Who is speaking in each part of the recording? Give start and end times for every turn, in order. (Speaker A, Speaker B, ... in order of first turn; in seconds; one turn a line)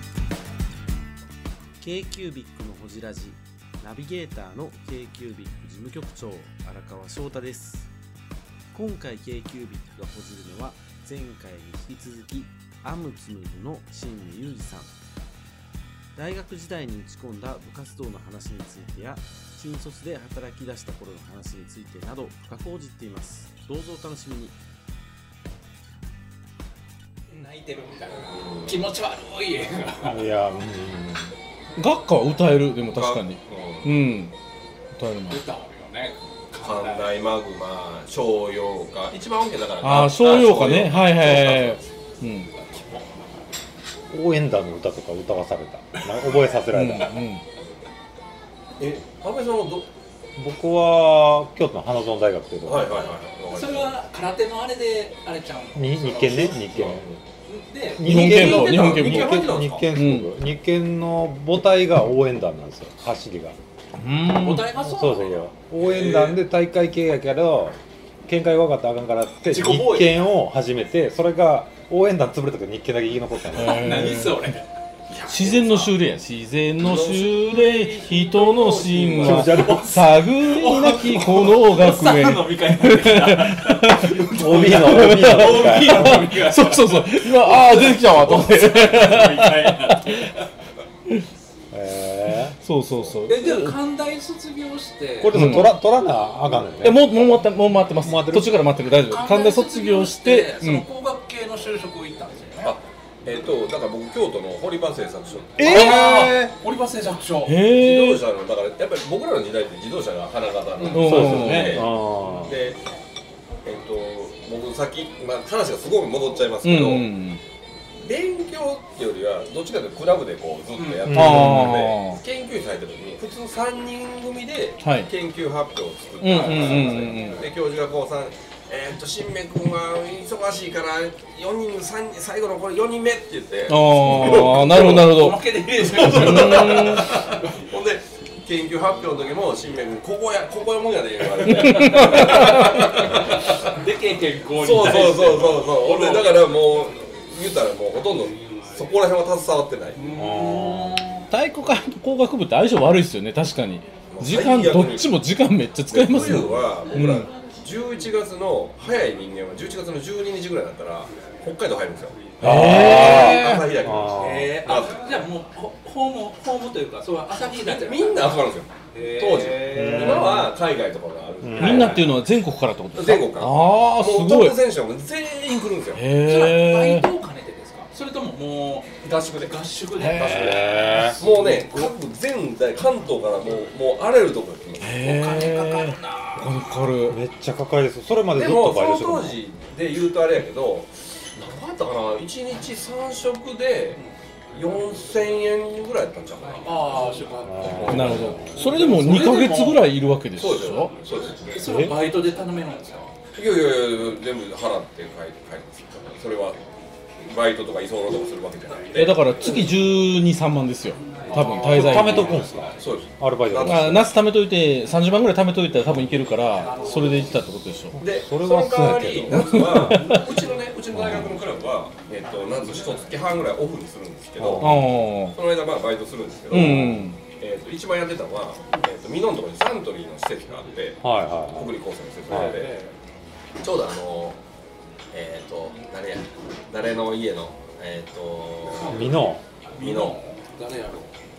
Speaker A: 1.8-7.9
Speaker A: 8.7-14.9
Speaker A: 16.2-24.6
Speaker B: 27.3-30.2
Speaker C: 28.3-28.9
Speaker D: 30.0-31.3
Speaker E: 31.8-34.3
Speaker C: 32.9-34.0
Speaker E: 35.0-35.4
Speaker B: 35.3-37.1
Speaker C: 36.6-41.9
Speaker E: 39.8-42.5
Speaker D: 44.1-47.2
Speaker E: 46.7-47.4
Speaker C: 48.8-49.9
Speaker D: 50.4-52.9
Speaker C: 52.6-53.9
Speaker B: 53.5-56.6
Speaker D: 55.8-57.1
Speaker C: 56.3-57.2
Speaker B: 57.5-58.2
Speaker D: 58.0-63.6
Speaker E: 58.0-60.3
Speaker C: 58.1-59.9
Speaker E: 64.0-64.7
Speaker B: 64.3-65.4
Speaker D: 64.8-73.8
Speaker C: 65.8-66.4
Speaker B: 69.5-70.2
Speaker E: 73.5-74.5
Speaker B: 73.6-74.7
Speaker C: 75.1-75.9
Speaker E: 75.3-90.3
Speaker C: 76.8-79.9
Speaker D: 79.2-80.0
Speaker B: 79.5-90.3
Speaker D: 84.2-86.3
Speaker D: 91.7-92.6
Speaker E: 92.6-93.8
Speaker B: 93.3-95.7
Speaker D: 95.2-97.1
Speaker E: 95.3-95.8
Speaker E: 96.8-100.9
Speaker D: 98.0-98.7
Speaker B: 99.1-102.8
Speaker C: 102.6-106.1
Speaker D: 105.6-106.5
Speaker E: 105.6-106.2
Speaker B: 105.6-107.5
Speaker E: 107.5-108.3
Speaker C: 107.7-111.9
Speaker B: 110.8-111.2
Speaker E: 110.9-111.9
Speaker D: 110.9-112.6
Speaker C: 112.4-112.8
Speaker C: 113.7-117.1
Speaker E: 116.6-117.4
Speaker C: 118.0-143.7
Speaker B: 120.8-121.1
Speaker D: 121.1-121.9
Speaker E: 121.1-122.2
Speaker E: 124.8-125.1
Speaker E: 126.2-127.4
Speaker B: 126.4-127.0
Speaker E: 133.7-137.1
Speaker B: 134.9-137.0
Speaker E: 141.6-142.8
Speaker B: 142.0-142.7
Speaker B: 143.7-146.4
Speaker C: 144.6-150.0
Speaker B: 150.0-151.2
Speaker D: 150.2-151.1
Speaker E: 151.3-157.3
Speaker C: 154.1-155.2
Speaker C: 155.9-165.0
Speaker E: 162.4-163.7
Speaker D: 162.4-164.6
Speaker B: 164.2-168.3
Speaker C: 167.6-172.2
Speaker B: 168.9-170.4
Speaker D: 169.8-170.3
Speaker D: 171.4-172.0
Speaker E: 171.6-174.6
Speaker C: 172.9-176.0
Speaker E: 175.9-177.1
Speaker B: 176.2-181.9
Speaker E: 180.0-180.6
Speaker D: 180.2-181.2
Speaker C: 181.2-185.1
Speaker E: 184.8-187.2
Speaker B: 185.0-186.5
Speaker D: 187.1-189.4
Speaker C: 188.3-194.0
Speaker C: 194.5-196.9
Speaker B: 196.6-199.9
Speaker D: 197.4-198.8
Speaker C: 197.6-199.6
Speaker E: 197.9-200.9
Speaker C: 200.4-201.5
Speaker B: 201.5-203.1
Speaker E: 201.6-201.9
Speaker C: 203.3-206.6
Speaker C: 207.2-209.7
Speaker E: 208.9-212.4
Speaker C: 211.3-214.1
Speaker D: 211.4-214.1
Speaker E: 213.6-218.0
Speaker D: 218.0-220.1
Speaker C: 218.0-224.8
Speaker E: 219.3-220.2
Speaker D: 220.9-221.3
Speaker D: 224.4-224.9
Speaker E: 224.6-225.4
Speaker C: 225.3-232.7
Speaker E: 226.5-227.2
Speaker D: 226.5-227.0
Speaker D: 231.0-231.7
Speaker D: 232.3-232.6
Speaker B: 232.3-232.9
Speaker C: 233.6-234.4
Speaker C: 235.1-239.1
Speaker D: 238.9-239.4
Speaker B: 239.8-241.1
Speaker C: 239.8-240.2